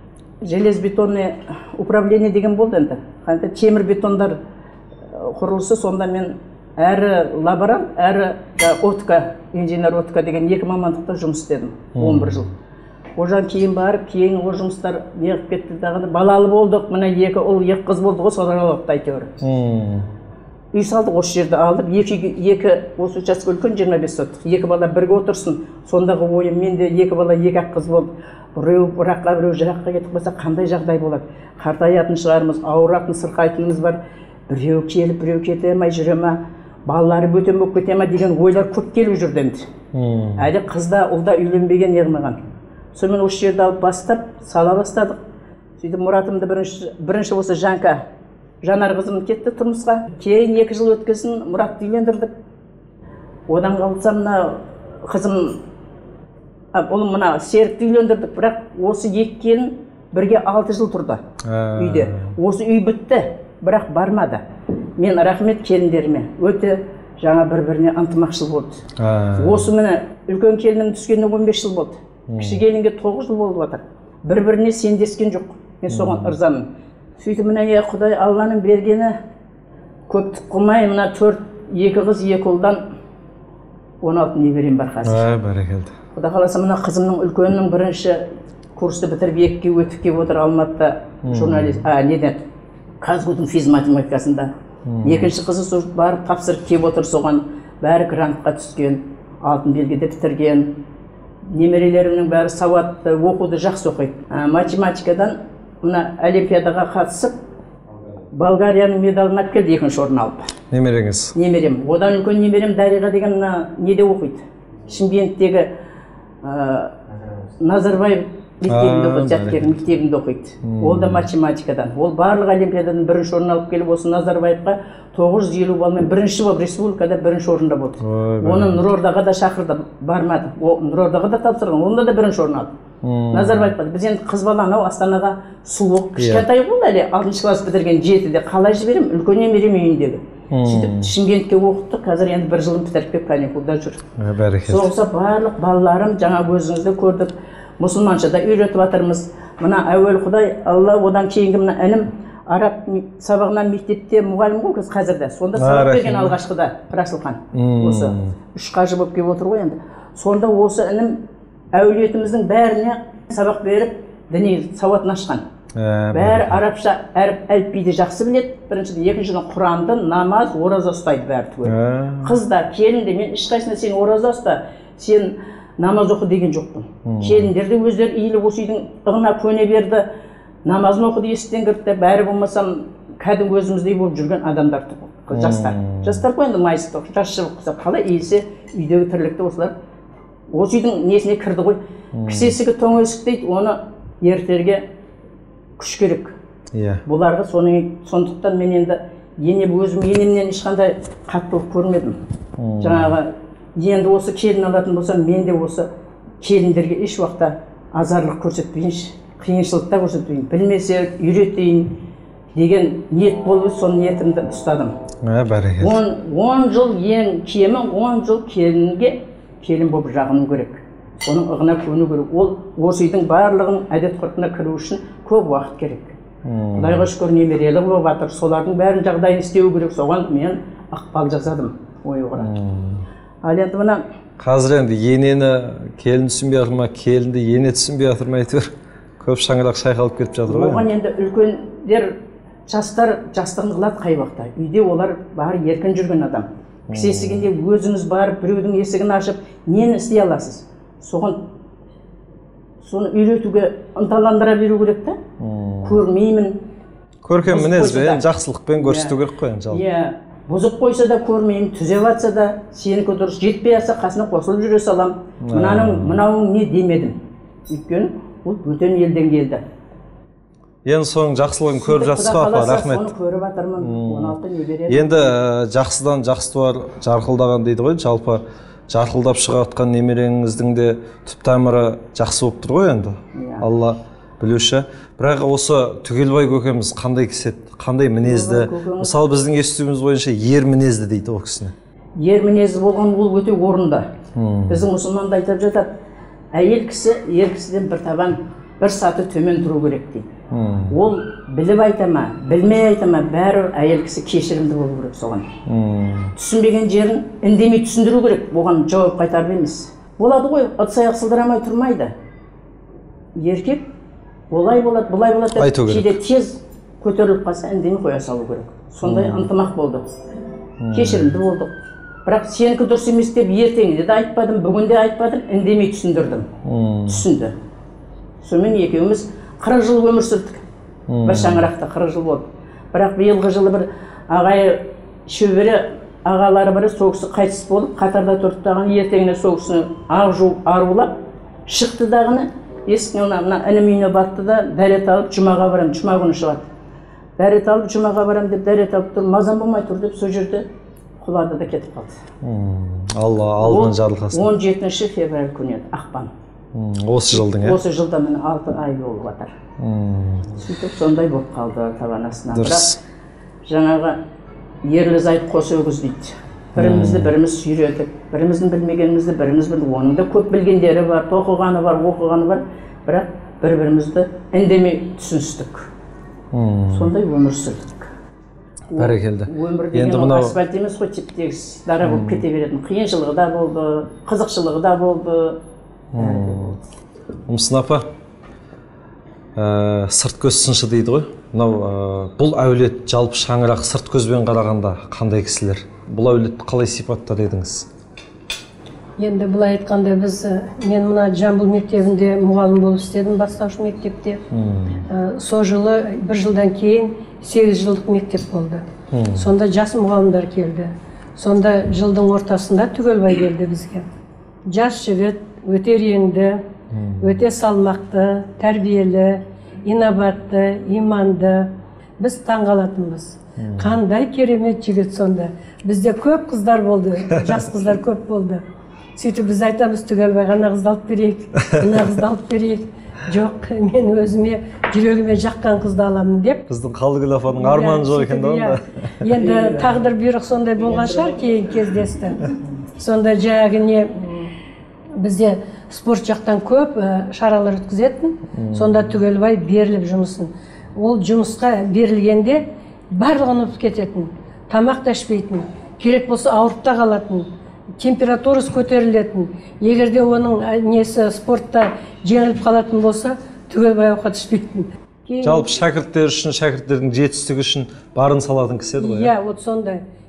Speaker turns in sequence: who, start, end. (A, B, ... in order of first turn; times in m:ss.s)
0:00.4-0:04.4 A
0:05.1-0:12.5 A
0:11.9-0:12.5 B
0:13.2-0:19.4 A
0:19.4-0:20.1 B
0:20.7-0:39.6 A
0:39.9-0:40.5 B
0:40.4-0:42.4 A
0:42.9-0:45.2 A
0:45.8-0:48.0 A
0:48.6-0:52.3 A
0:53.5-0:55.6 A
0:56.7-1:01.2 A
1:01.4-1:02.3 B
1:01.8-1:04.4 A
1:05.0-1:08.8 A
1:09.0-1:09.7 B
1:09.4-1:16.6 A
1:12.3-1:12.6 B
1:15.9-1:16.3 B
1:17.2-1:19.2 A
1:20.1-1:22.8 A
1:24.0-1:25.3 A
1:25.0-1:25.9 B
1:26.1-1:32.4 A
1:31.2-1:31.8 B
1:33.0-1:34.5 A
1:34.8-1:35.3 B
1:35.0-1:40.7 A
1:41.5-1:47.4 A
1:48.3-1:50.5 A
1:50.7-1:51.3 B
1:51.3-1:55.7 A
1:56.4-1:57.0 A
1:57.6-2:12.7 A
1:58.7-1:59.7 B
2:00.6-2:01.3 B
2:08.0-2:08.8 B
2:13.0-2:13.7 B
2:13.3-2:24.0 A
2:16.2-2:16.4 B
2:20.5-2:21.1 B
2:24.2-2:24.9 B
2:24.6-2:41.2 A
2:35.6-2:36.3 B
2:37.5-2:38.3 B
2:41.7-2:45.4 A
2:45.7-2:46.6 B
2:46.1-3:00.1 A
2:51.6-2:52.4 B
2:57.0-2:57.5 B
3:00.6-3:09.7 A
3:05.3-3:06.2 B
3:10.5-3:14.8 A
3:12.1-3:12.6 B
3:15.8-3:16.4 A
3:16.7-3:17.0 B
3:17.0-3:22.2 A
3:22.6-3:23.1 B
3:22.8-3:25.9 A
3:26.4-3:31.9 A
3:32.5-3:34.9 A
3:35.2-3:36.0 B
3:35.8-3:46.2 A
3:46.4-3:47.1 B
3:46.8-3:52.5 A
3:52.4-3:53.0 B
3:53.4-3:54.0 A
3:54.4-4:00.8 B
4:00.5-4:02.1 A
4:02.7-4:11.4 A
4:06.9-4:07.5 B
4:12.8-4:15.2 A
4:15.4-4:16.0 B
4:15.8-4:16.6 A
4:17.2-4:19.8 B
4:17.4-4:18.2 A
4:18.8-4:19.2 A
4:19.7-4:27.2 A
4:25.4-4:26.2 B
4:27.7-4:29.6 A
4:30.8-4:33.1 B
4:31.7-4:35.3 A
4:33.8-4:34.4 B
4:34.9-4:51.7 B
4:43.3-4:43.6 A
4:48.2-4:49.1 A
4:52.2-4:54.1 A
4:54.3-4:54.9 B
4:54.7-4:55.9 A
4:56.5-5:00.3 A
5:00.5-5:01.0 B
5:00.9-5:05.5 A
5:05.7-5:06.3 B
5:06.4-5:12.1 A
5:13.4-5:13.9 A
5:14.5-5:20.0 A
5:15.6-5:16.1 B
5:19.0-5:19.5 B
5:20.8-5:21.3 B
5:20.9-5:21.7 A
5:22.2-5:26.5 A
5:26.6-5:27.3 B
5:27.1-5:27.5 A
5:28.4-5:30.6 A
5:31.1-5:31.7 B
5:31.2-5:41.1 A
5:41.7-5:46.7 A
5:47.4-5:50.6 A
5:51.2-5:52.2 A
5:52.4-5:54.5 B
5:53.6-5:56.3 A
5:56.7-5:57.8 B
5:57.3-5:59.6 A
5:59.8-6:00.5 B
6:00.6-6:02.9 A
6:02.5-6:03.0 B
6:03.6-6:04.2 A
6:04.8-6:15.9 A
6:06.8-6:07.3 B
6:16.5-6:17.1 B
6:16.9-6:18.1 A
6:18.9-6:25.6 A
6:19.0-6:20.6 B
6:22.0-6:22.4 B
6:26.1-6:26.8 B
6:26.2-6:26.8 A
6:27.4-6:28.1 B
6:29.6-6:37.8 B
6:39.2-6:44.4 C
6:44.5-6:45.0 B
6:45.1-6:54.0 C
6:49.1-6:49.5 B
6:54.7-6:56.6 C
6:56.9-6:57.4 B
6:57.2-7:01.7 C
7:02.2-7:08.6 C
7:03.6-7:04.0 B
7:09.2-7:16.6 C
7:16.7-7:18.8 B
7:17.5-7:22.4 C
7:23.0-7:24.4 C
7:25.2-7:45.7 C
7:28.5-7:29.1 B
7:45.4-7:49.3 B
7:49.0-7:50.0 C